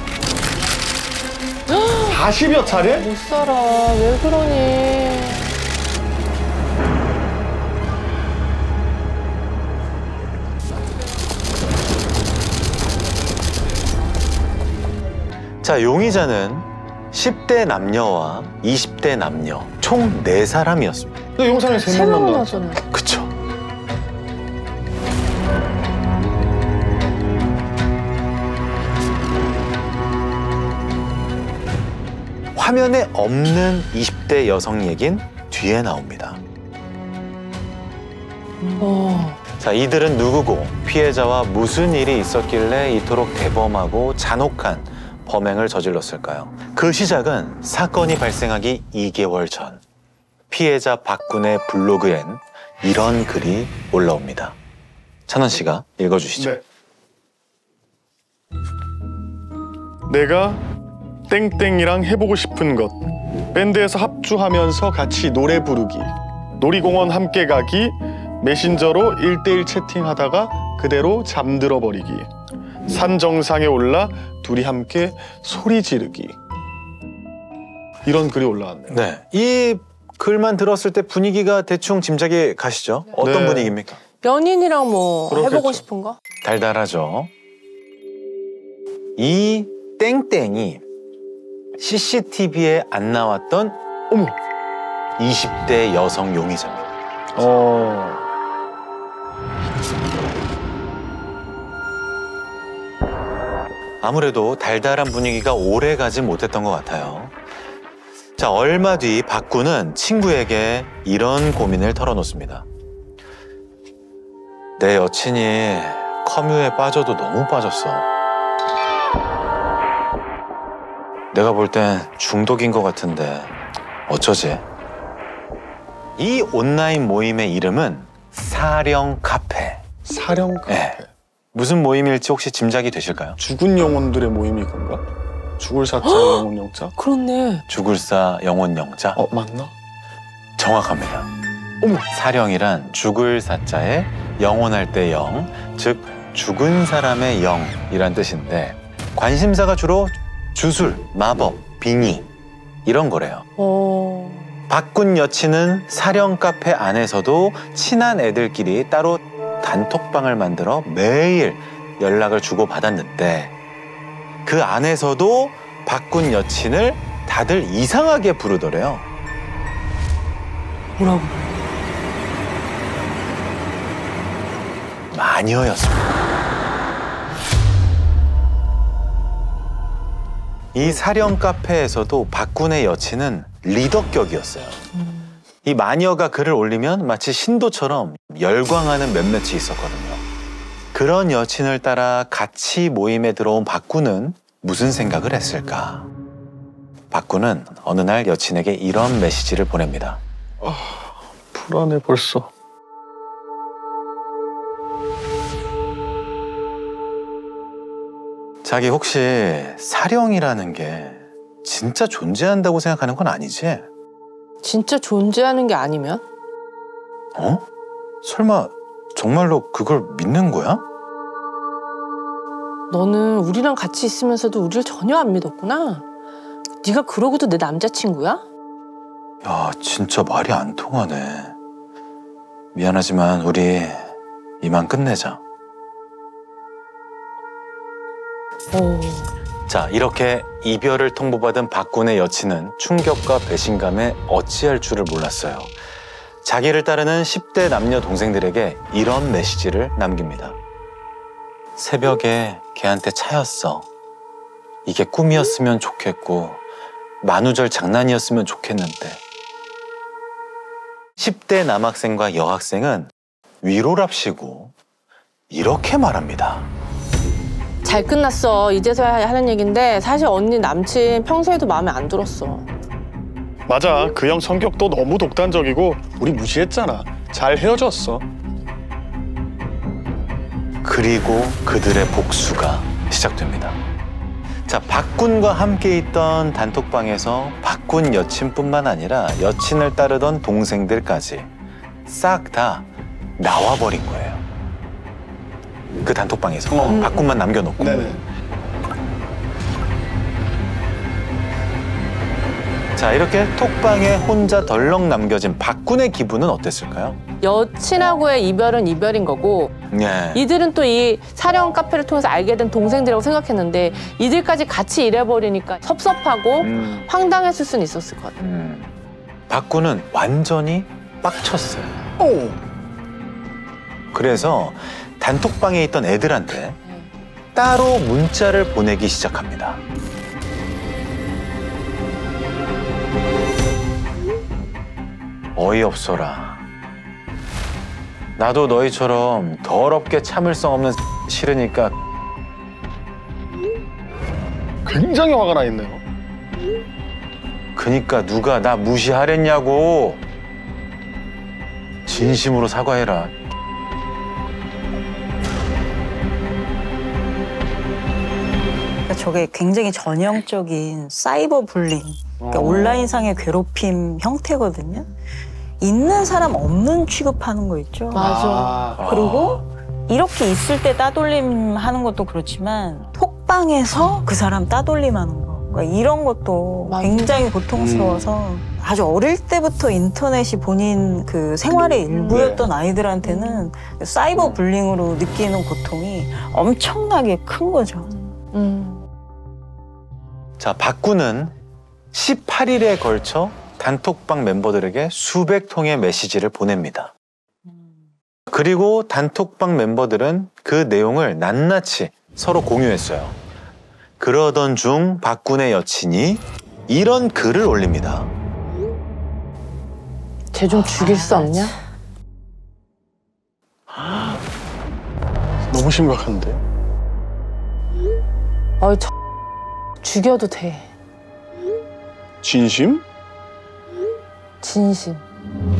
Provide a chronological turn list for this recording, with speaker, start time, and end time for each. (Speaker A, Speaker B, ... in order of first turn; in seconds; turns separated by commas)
Speaker A: 1.7-2.2, Speaker B: 2.1-3.1, Speaker A: 2.8-5.5, Speaker C: 15.6-21.2, Speaker B: 21.4-22.6, Speaker A: 21.9-22.8, Speaker C: 22.9-23.3, Speaker C: 32.5-36.4, Speaker A: 38.8-39.4, Speaker C: 39.6-49.8, Speaker C: 50.5-54.6, Speaker C: 55.3-56.6, Speaker B: 56.4-56.6, Speaker B: 60.1-60.6, Speaker B: 61.3-72.3, Speaker B: 72.9-76.4, Speaker B: 78.0-79.0, Speaker C: 78.9-84.0, Speaker B: 83.2-83.8, Speaker A: 84.2-86.2, Speaker B: 85.3-85.8, Speaker C: 86.4-87.3, Speaker C: 89.2-90.8, Speaker C: 91.8-93.8, Speaker B: 94.1-94.3, Speaker C: 95.2-96.9, Speaker B: 97.4-98.2, Speaker C: 104.0-107.3, Speaker C: 108.4-112.7, Speaker C: 114.8-118.1, Speaker C: 121.3-123.5, Speaker C: 124.1-124.6, Speaker C: 126.2-129.8, Speaker B: 130.1-131.1, Speaker C: 130.7-131.0, Speaker C: 131.5-133.4, Speaker B: 133.4-135.0, Speaker B: 135.6-136.9, Speaker A: 136.0-136.4, Speaker A: 137.0-137.6, Speaker C: 137.7-139.2, Speaker B: 139.2-139.7, Speaker C: 140.6-141.3, Speaker C: 141.9-152.3, Speaker C: 152.8-153.4, Speaker A: 153.6-154.6, Speaker C: 154.7-163.5, Speaker C: 164.4-169.1, Speaker A: 171.0-171.5, Speaker C: 175.1-176.1, Speaker C: 180.7-184.8, Speaker A: 185.0-185.3, Speaker C: 185.6-190.2, Speaker C: 190.9-196.1, Speaker C: 197.1-200.2, Speaker B: 200.6-202.5, Speaker C: 208.6-213.9, Speaker A: 214.6-216.2, Speaker C: 217.4-217.6, Speaker C: 218.2-220.8, Speaker A: 222.9-226.0, Speaker A: 226.8-228.4, Speaker C: 229.4-231.5, Speaker C: 232.7-235.4, Speaker A: 238.7-239.3, Speaker C: 239.7-245.8, Speaker C: 246.4-250.6, Speaker C: 251.8-253.9, Speaker C: 254.9-256.6, Speaker C: 257.2-259.2, Speaker C: 261.2-263.1, Speaker C: 263.6-264.7, Speaker C: 265.5-266.7, Speaker A: 267.8-272.7, Speaker B: 273.7-278.3, Speaker C: 280.8-283.8, Speaker C: 284.7-291.5, Speaker C: 292.1-292.9, Speaker C: 293.4-294.4, Speaker C: 296.0-298.1, Speaker B: 296.7-297.1, Speaker A: 296.9-297.2, Speaker B: 297.8-298.2, Speaker A: 297.8-298.2, Speaker C: 303.0-307.2, Speaker A: 307.4-309.8, Speaker C: 309.9-310.4, Speaker A: 310.3-318.4, Speaker C: 316.6-317.1, Speaker C: 318.4-318.9, Speaker C: 319.5-322.0, Speaker B: 322.2-322.6, Speaker C: 324.1-326.8, Speaker C: 327.6-329.8, Speaker C: 335.6-336.6, Speaker C: 338.4-342.0, Speaker B: 344.9-346.0, Speaker C: 347.8-350.2, Speaker C: 352.1-353.4, Speaker D: 359.1-365.1, Speaker B: 362.4-362.9, Speaker D: 365.8-368.4, Speaker A: 368.1-368.9, Speaker B: 368.1-369.1, Speaker C: 369.0-369.6, Speaker D: 369.0-388.1, Speaker A: 376.9-377.4, Speaker B: 377.8-378.2, Speaker A: 382.1-382.6, Speaker A: 383.2-383.7, Speaker A: 388.1-389.0, Speaker C: 390.6-391.5, Speaker C: 392.1-397.1, Speaker C: 398.5-403.4, Speaker C: 404.2-408.3, Speaker A: 410.5-411.8, Speaker C: 414.0-414.2, Speaker B: 415.7-416.6, Speaker A: 418.8-419.1, Speaker A: 420.0-420.9, Speaker B: 422.4-423.0, Speaker A: 424.6-425.2